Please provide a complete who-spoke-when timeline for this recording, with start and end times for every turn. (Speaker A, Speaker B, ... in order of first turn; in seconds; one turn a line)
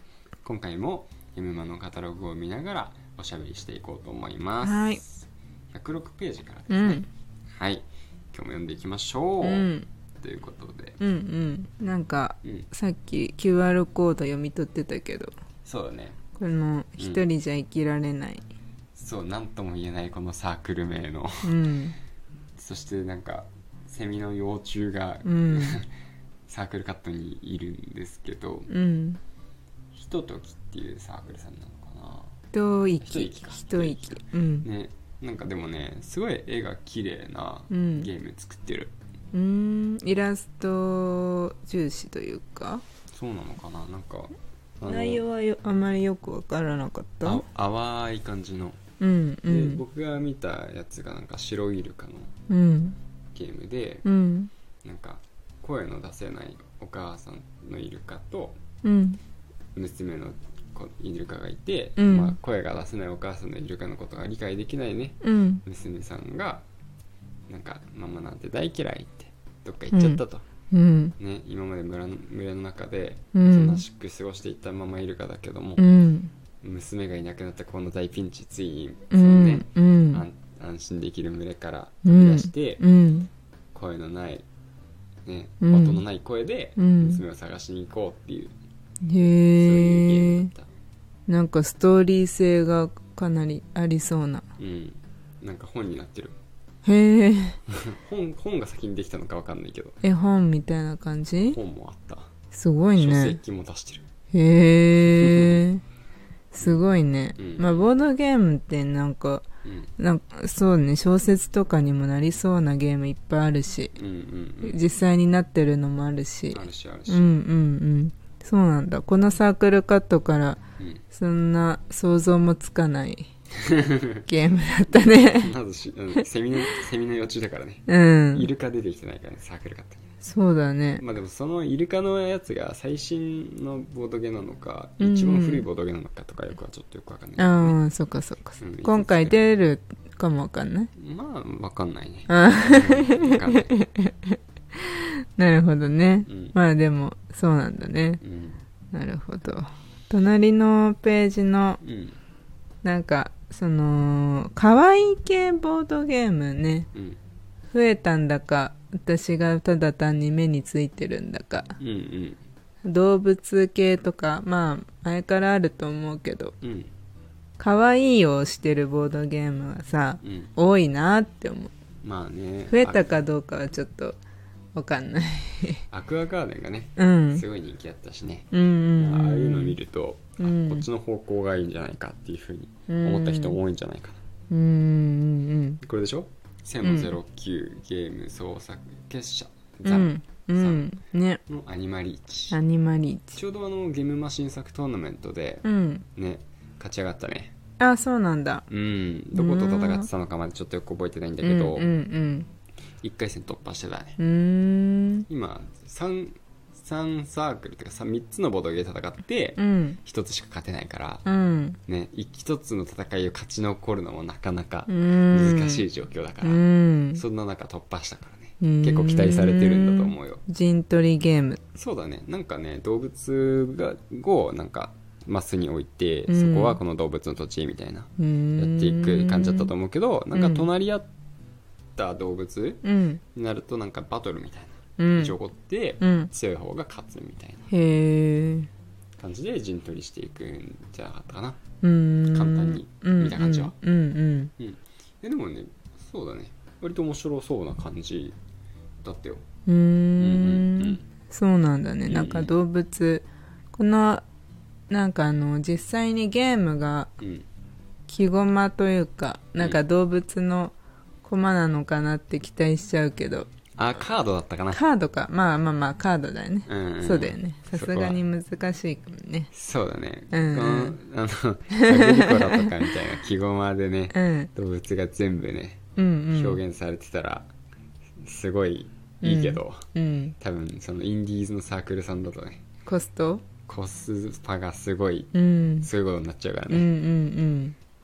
Speaker A: 0.4-11.0
Speaker B: 4.6-5.0
Speaker B: 6.7-7.0
Speaker B: 9.4-9.8
Speaker B: 11.0-15.3
Speaker A: 15.6-16.2
Speaker B: 16.4-18.4
Speaker A: 17.0-17.2
Speaker A: 18.9-21.6
Speaker B: 21.4-21.9
Speaker A: 22.6-25.9
Speaker B: 25.2-25.8
Speaker A: 26.5-28.7
Speaker B: 28.7-29.2
Speaker A: 29.9-32.3
Speaker B: 32.5-34.7
Speaker A: 33.0-38.9
Speaker B: 37.7-38.1
Speaker B: 39.3-42.8
Speaker A: 43.1-45.2
Speaker B: 44.8-47.4
Speaker A: 47.2-48.8
Speaker B: 49.0-49.8
Speaker A: 49.5-52.3
Speaker B: 52.5-53.0
Speaker A: 53.3-54.0
Speaker B: 54.0-54.5
Speaker A: 54.8-58.6
Speaker B: 58.8-59.2
Speaker A: 59.7-66.7
Speaker B: 62.0-62.4
Speaker B: 65.2-65.6
Speaker A: 67.5-70.4
Speaker B: 69.9-71.1
Speaker A: 71.2-75.8
Speaker B: 73.3-73.8
Speaker B: 75.8-76.3
Speaker A: 76.6-82.8
Speaker B: 79.1-80.2
Speaker B: 82.0-83.3
Speaker A: 83.7-84.5
Speaker A: 85.2-88.5
Speaker B: 85.6-86.0
Speaker B: 86.8-87.2
Speaker B: 89.0-90.5
Speaker A: 89.5-90.7
Speaker B: 91.3-94.5
Speaker A: 94.6-96.4
Speaker B: 96.8-97.6
Speaker A: 97.7-100.0
Speaker B: 100.0-101.6
Speaker A: 101.3-102.3
Speaker B: 102.5-103.4
Speaker A: 103.0-104.1
Speaker B: 104.3-105.8
Speaker A: 105.2-105.6
Speaker B: 106.5-109.4
Speaker A: 107.4-107.9
Speaker A: 109.6-109.9
Speaker B: 110.0-113.9
Speaker A: 114.0-114.8
Speaker B: 114.6-120.6
Speaker A: 116.5-117.3
Speaker B: 121.1-123.3
Speaker A: 123.6-124.2
Speaker B: 124.2-125.5
Speaker A: 124.9-130.1
Speaker B: 127.9-128.5
Speaker B: 130.2-131.0
Speaker A: 131.0-137.8
Speaker B: 135.0-135.6
Speaker B: 137.4-140.9
Speaker A: 138.6-139.4
Speaker A: 140.9-143.7
Speaker B: 142.3-148.2
Speaker A: 146.3-146.6
Speaker A: 148.2-148.6
Speaker B: 148.9-151.8
Speaker A: 151.8-152.2
Speaker B: 152.8-156.9
Speaker B: 157.7-161.8
Speaker A: 161.8-162.4
Speaker B: 162.8-166.5
Speaker A: 166.6-166.9
Speaker B: 167.6-171.7
Speaker A: 170.2-170.5
Speaker A: 172.0-173.2
Speaker B: 172.7-174.2
Speaker B: 174.7-175.8
Speaker A: 175.9-184.2
Speaker B: 177.0-177.4
Speaker B: 178.5-179.8
Speaker B: 180.4-180.8
Speaker B: 182.9-183.6
Speaker B: 184.5-185.8
Speaker A: 185.8-190.9
Speaker B: 186.8-187.1
Speaker B: 189.8-191.4
Speaker A: 191.5-192.6
Speaker B: 192.5-193.4
Speaker A: 193.3-195.6
Speaker B: 195.6-196.1
Speaker A: 196.2-197.5
Speaker B: 197.8-198.6
Speaker A: 198.7-201.9
Speaker B: 199.3-200.1
Speaker B: 201.4-202.5
Speaker A: 203.0-204.2
Speaker B: 204.2-205.2
Speaker A: 205.3-211.2
Speaker B: 209.6-210.0
Speaker B: 211.2-211.8
Speaker A: 211.9-216.6
Speaker B: 214.9-215.8
Speaker B: 216.4-217.2
Speaker A: 217.1-220.4
Speaker B: 218.6-221.6
Speaker A: 221.7-231.1
Speaker B: 226.3-226.8
Speaker B: 228.2-229.7
Speaker B: 230.3-230.7
Speaker A: 231.9-232.8
Speaker B: 232.8-233.2
Speaker A: 233.3-237.7
Speaker B: 235.0-235.3
Speaker B: 236.0-236.3
Speaker B: 237.7-238.7
Speaker A: 239.2-241.6
Speaker B: 241.8-244.5
Speaker A: 242.3-243.7
Speaker A: 244.6-248.3
Speaker A: 249.0-249.4
Speaker B: 249.7-254.2
Speaker A: 250.2-251.0
Speaker A: 252.1-252.5
Speaker B: 254.9-257.1
Speaker A: 257.2-257.4
Speaker B: 258.1-263.5
Speaker A: 263.8-264.8
Speaker B: 264.7-269.5
Speaker A: 266.7-268.2
Speaker A: 269.5-275.8
Speaker B: 270.3-271.0
Speaker B: 271.7-272.8
Speaker B: 274.1-274.5
Speaker B: 275.9-276.6
Speaker A: 276.3-277.5
Speaker A: 278.2-279.9
Speaker B: 279.2-280.3
Speaker A: 280.4-282.6
Speaker B: 282.9-283.4
Speaker A: 283.7-286.9
Speaker B: 285.3-285.9
Speaker B: 286.7-287.8